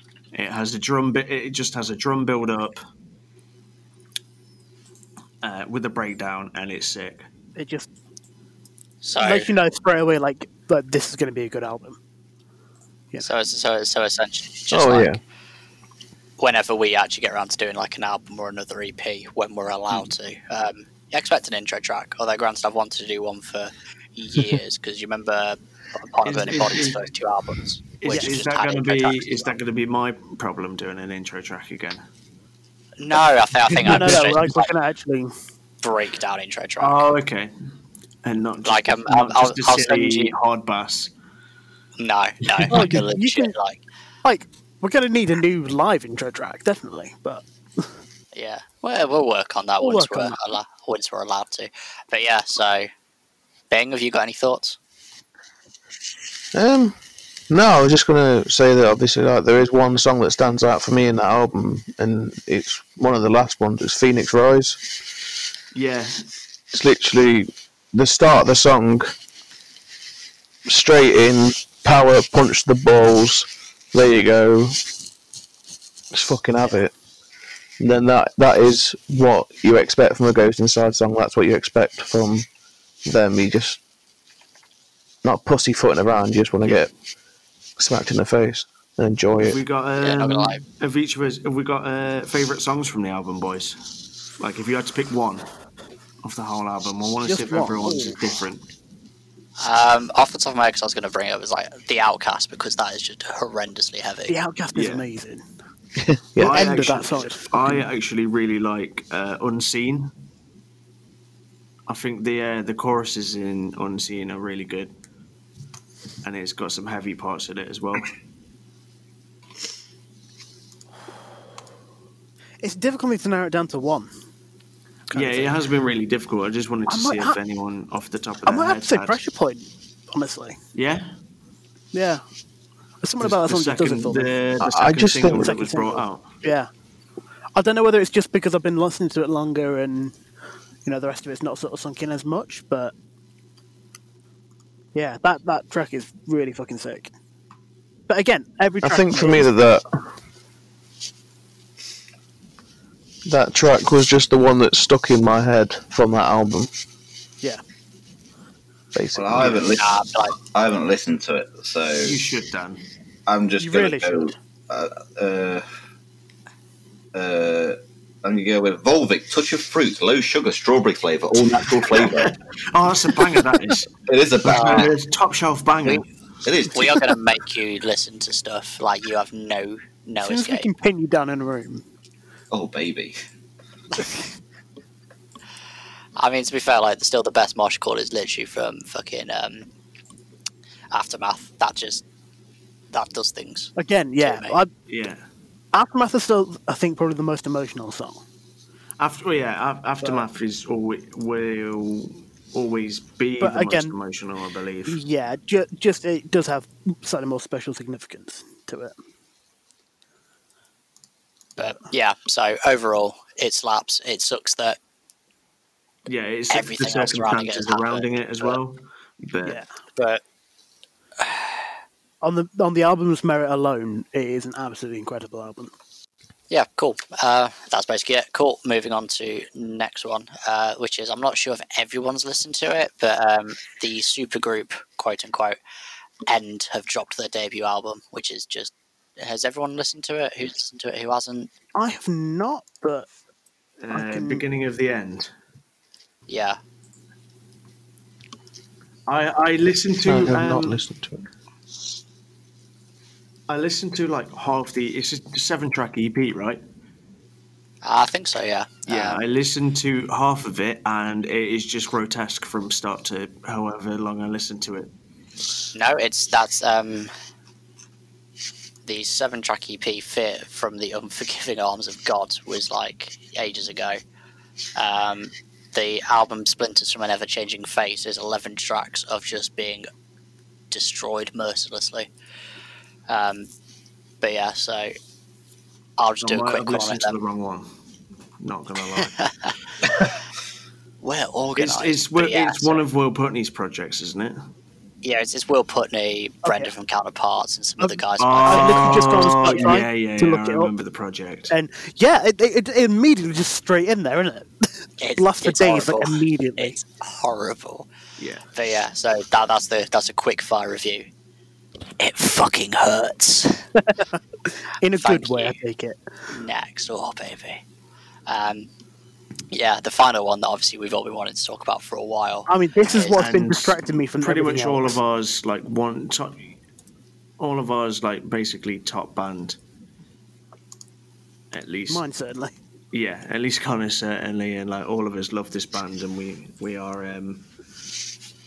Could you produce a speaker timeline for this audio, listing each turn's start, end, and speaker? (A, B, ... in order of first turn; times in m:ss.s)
0:00.3-0:02.8 A
0:05.4-0:07.2 A
0:07.6-0:07.9 B
0:09.0-0:09.5 C
0:09.2-0:12.0 B
0:13.2-0:15.2 C
0:14.7-0:15.2 D
0:16.4-0:29.5 C
0:26.2-0:27.0 A
0:28.0-0:32.0 A
0:28.0-0:28.3 B
0:33.0-0:34.7 C
0:33.8-0:34.2 A
0:33.8-0:35.3 B
0:35.8-0:37.0 C
0:36.8-0:37.5 A
0:38.2-0:41.1 A
0:38.6-0:40.3 C
0:42.0-0:43.8 C
0:42.7-0:43.5 B
0:44.2-0:47.9 B
0:48.3-0:52.9 C
0:49.8-0:50.4 B
0:53.7-0:54.8 C
0:56.5-0:56.9 D
0:57.5-1:04.8 D
1:05.7-1:06.2 A
1:06.7-1:09.1 D
1:10.6-1:14.8 D
1:16.1-1:16.9 D
1:17.8-1:22.4 D
1:23.0-1:23.8 D
1:25.2-1:26.9 D
1:27.8-1:29.6 D
1:29.4-1:33.8 A
1:30.0-1:30.6 C
1:34.4-1:35.5 A
1:36.2-1:38.6 A
1:37.2-1:38.2 B
1:39.6-1:44.4 C
1:44.3-1:45.4 B
1:44.7-1:45.0 A
1:46.0-1:46.9 D
1:46.4-1:50.1 A
1:46.4-1:47.8 B
1:51.9-1:54.9 A
1:56.2-1:58.1 A
2:02.6-2:04.1 B
2:05.1-2:05.6 B
2:05.1-2:09.2 A
2:06.9-2:07.4 B
2:08.4-2:10.6 B
2:10.7-2:11.1 A
2:11.9-2:12.2 B
2:13.0-2:14.3 B
2:13.2-2:16.4 A
2:14.6-2:15.5 D
2:15.3-2:16.7 B
2:17.5-2:20.2 B
2:20.8-2:22.9 B
2:24.9-2:27.1 B
2:28.1-2:29.5 B
2:28.8-2:29.8 D
2:33.2-2:36.7 D
2:38.9-2:39.6 D
2:39.1-2:42.2 E
2:39.7-2:40.3 C
2:42.0-2:42.8 A
2:43.3-2:45.6 E
2:43.6-2:44.3 B
2:47.1-2:52.3 E
2:51.8-2:53.9 A
2:54.1-2:54.9 E
2:54.4-2:56.0 A
2:54.5-2:54.9 C
2:56.4-2:57.1 E
2:56.7-3:00.7 C
3:00.2-3:01.8 B
3:02.5-3:03.2 E
3:06.2-3:09.7 C
3:10.9-3:12.0 C
3:12.9-3:14.6 C
3:13.8-3:14.7 B
3:14.9-3:15.2 A
3:15.7-3:18.2 B
3:19.0-3:25.0 A
3:23.4-3:24.0 B
3:24.9-3:28.9 B
3:31.6-3:34.8 C
3:36.0-3:39.6 A
3:36.5-3:38.5 C
3:40.0-3:40.2 C
3:41.2-3:41.6 C
3:42.2-3:45.7 B
3:46.5-3:55.6 C
3:56.3-4:01.5 C
4:01.7-4:03.1 B
4:03.8-4:05.3 A
4:03.9-4:04.4 B
4:06.3-4:06.6 C
4:09.1-4:10.8 A
4:10.0-4:11.3 D
4:13.5-4:16.6 A
4:17.8-4:19.2 C
4:18.9-4:24.9 A
4:25.7-4:27.1 C
4:28.8-4:34.0 C
4:34.8-4:39.9 C
4:40.7-4:42.1 C
4:43.1-4:43.5 C
4:44.2-4:44.9 C
4:46.0-4:47.2 C
4:46.2-4:47.7 A
4:48.4-4:49.1 A
4:49.0-4:49.5 C
4:51.0-4:52.8 C
4:51.6-4:54.5 A
4:55.0-4:59.6 C
4:56.4-4:56.7 B
4:57.8-5:00.7 B
4:58.2-5:01.5 A
5:01.5-5:06.8 B
5:05.0-5:07.9 C
5:08.2-5:08.5 A
5:08.5-5:11.1 C
5:12.0-5:13.7 C
5:13.8-5:14.2 B
5:14.8-5:16.0 B
5:14.9-5:15.6 C
5:16.3-5:17.6 C
5:18.3-5:18.7 C
5:19.5-5:23.2 C
5:22.5-5:25.0 B
5:23.2-5:26.6 A
5:27.4-5:29.6 A
5:31.5-5:32.0 A
5:31.9-5:32.5 B
5:32.9-5:37.4 A